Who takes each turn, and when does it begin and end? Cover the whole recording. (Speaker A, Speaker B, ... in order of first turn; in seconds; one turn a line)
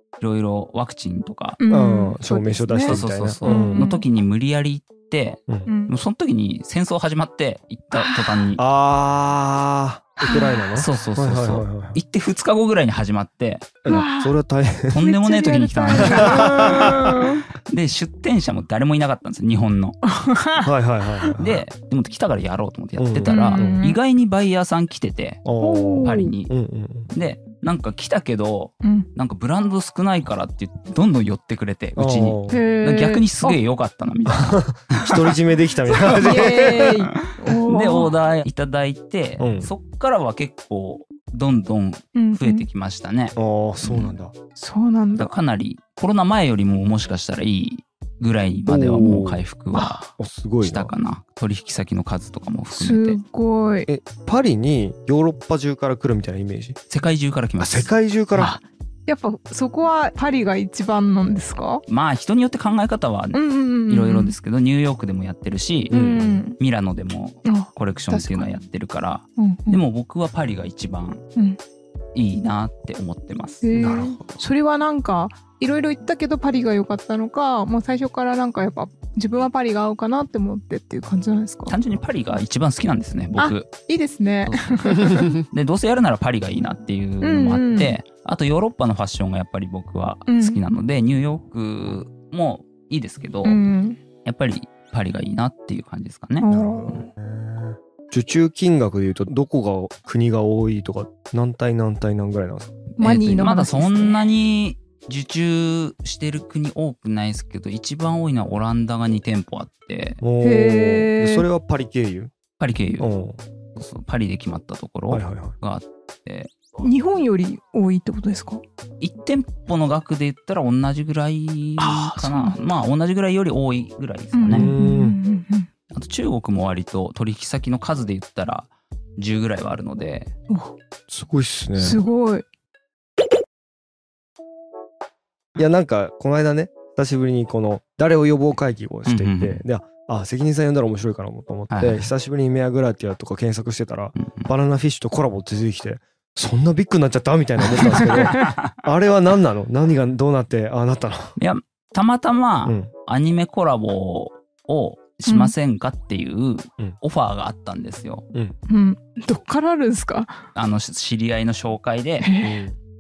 Speaker A: 0.2-1.6
Speaker B: 1.6-4.0
Speaker C: 1.7-3.9
Speaker A: 2.9-8.6
Speaker B: 5.7-5.9
Speaker B: 7.9-8.4
Speaker C: 8.6-12.0
Speaker B: 10.2-10.7
Speaker A: 10.7-13.8
Speaker C: 13.8-15.0
Speaker B: 13.8-14.3
Speaker A: 14.9-20.0
Speaker B: 14.9-17.4
Speaker C: 15.9-17.2
Speaker B: 20.1-20.7
Speaker C: 20.6-21.6
Speaker A: 21.4-25.4
Speaker C: 23.0-23.9
Speaker B: 23.2-24.0
Speaker C: 25.4-27.1
Speaker B: 25.6-26.3
Speaker A: 26.0-26.5
Speaker A: 27.1-35.3
Speaker B: 28.8-29.1
Speaker C: 31.9-32.6
Speaker B: 32.5-33.6
Speaker C: 34.3-37.0
Speaker B: 35.9-38.1
Speaker A: 36.0-44.1
Speaker C: 39.4-39.7
Speaker B: 42.1-42.7
Speaker C: 43.4-44.3
Speaker B: 44.5-45.3
Speaker A: 45.1-53.2
Speaker C: 48.7-49.4
Speaker C: 50.2-50.9
Speaker B: 52.7-53.9
Speaker C: 53.9-56.8
Speaker A: 56.9-58.5
Speaker C: 57.6-58.5
Speaker B: 58.4-61.8
Speaker A: 61.9-66.0
Speaker B: 63.3-64.3
Speaker C: 65.9-66.4
Speaker B: 65.9-66.6
Speaker A: 66.6-71.2
Speaker B: 67.4-68.6
Speaker B: 69.4-69.8
Speaker A: 72.1-73.6
Speaker B: 73.6-81.7
Speaker C: 73.7-74.4
Speaker A: 81.7-83.7
Speaker B: 83.4-85.4
Speaker A: 84.5-93.6
Speaker B: 87.2-88.0
Speaker B: 90.3-90.6
Speaker B: 93.4-94.0
Speaker A: 94.2-96.5
Speaker B: 96.4-97.1
Speaker C: 96.5-102.8
Speaker B: 103.0-104.2
Speaker A: 103.0-110.2
Speaker C: 110.2-112.3
Speaker B: 110.4-111.5
Speaker A: 112.6-113.1
Speaker C: 113.0-113.4
Speaker A: 113.8-116.5
Speaker C: 115.1-115.5
Speaker B: 116.8-118.6
Speaker A: 119.0-124.7
Speaker B: 121.8-122.6
Speaker B: 124.3-125.7
Speaker C: 124.5-125.2
Speaker A: 125.9-130.3
Speaker C: 131.1-132.0
Speaker B: 131.8-132.4
Speaker C: 135.6-151.3
Speaker A: 139.1-139.6
Speaker A: 141.7-142.1
Speaker A: 144.2-144.5
Speaker B: 147.8-148.5
Speaker A: 147.9-148.6
Speaker A: 151.4-158.2
Speaker B: 155.3-155.5
Speaker B: 158.7-160.4
Speaker A: 160.5-162.3
Speaker B: 162.2-162.6
Speaker C: 162.4-162.8